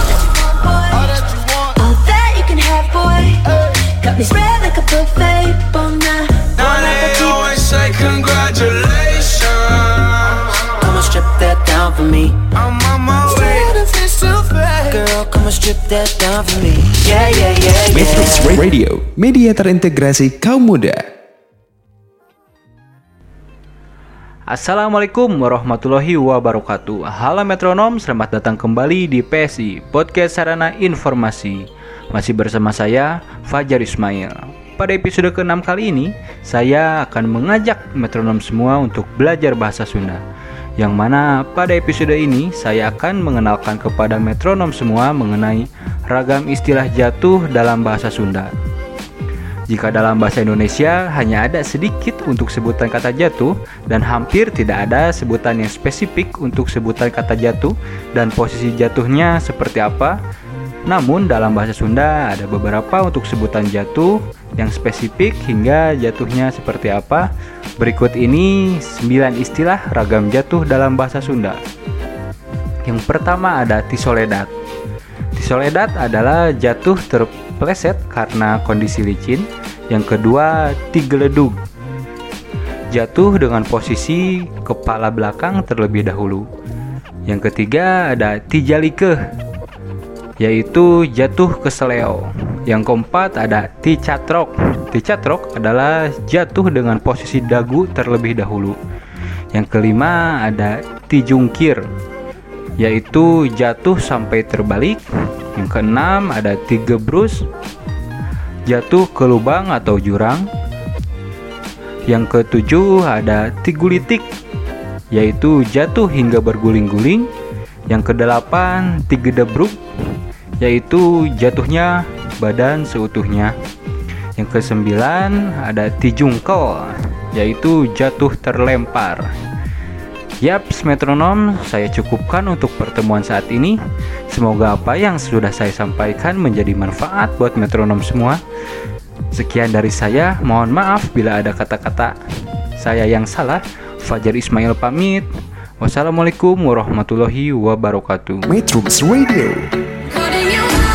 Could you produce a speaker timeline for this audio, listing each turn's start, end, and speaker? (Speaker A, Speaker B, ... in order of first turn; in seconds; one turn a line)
Speaker A: 0.4-7.7
Speaker B: 6.6-10.2
Speaker A: 10.2-12.5
Speaker B: 12.5-14.5
Speaker A: 13.3-18.5
Speaker C: 17.9-21.1
Speaker D: 24.5-40.2
Speaker D: 40.8-48.5
Speaker D: 49.7-60.2
Speaker D: 60.8-71.6
Speaker D: 72.8-74.5
Speaker D: 75.3-81.6
Speaker D: 82.9-86.5
Speaker D: 87.3-89.2
Speaker D: 90.4-98.8
Speaker D: 99.5-101.8
Speaker D: 102.8-107.5
Speaker D: 108.7-110.5
Speaker D: 112.1-114.3
Speaker D: 115.1-117.3
Speaker D: 117.9-119.8
Speaker D: 120.6-123.5
Speaker D: 124.4-129.3
Speaker D: 130.4-133.8
Speaker D: 134.3-138.4
Speaker D: 139.3-142.2
Speaker D: 142.8-145.3
Speaker D: 145.8-148.5
Speaker C: 148.4-149.7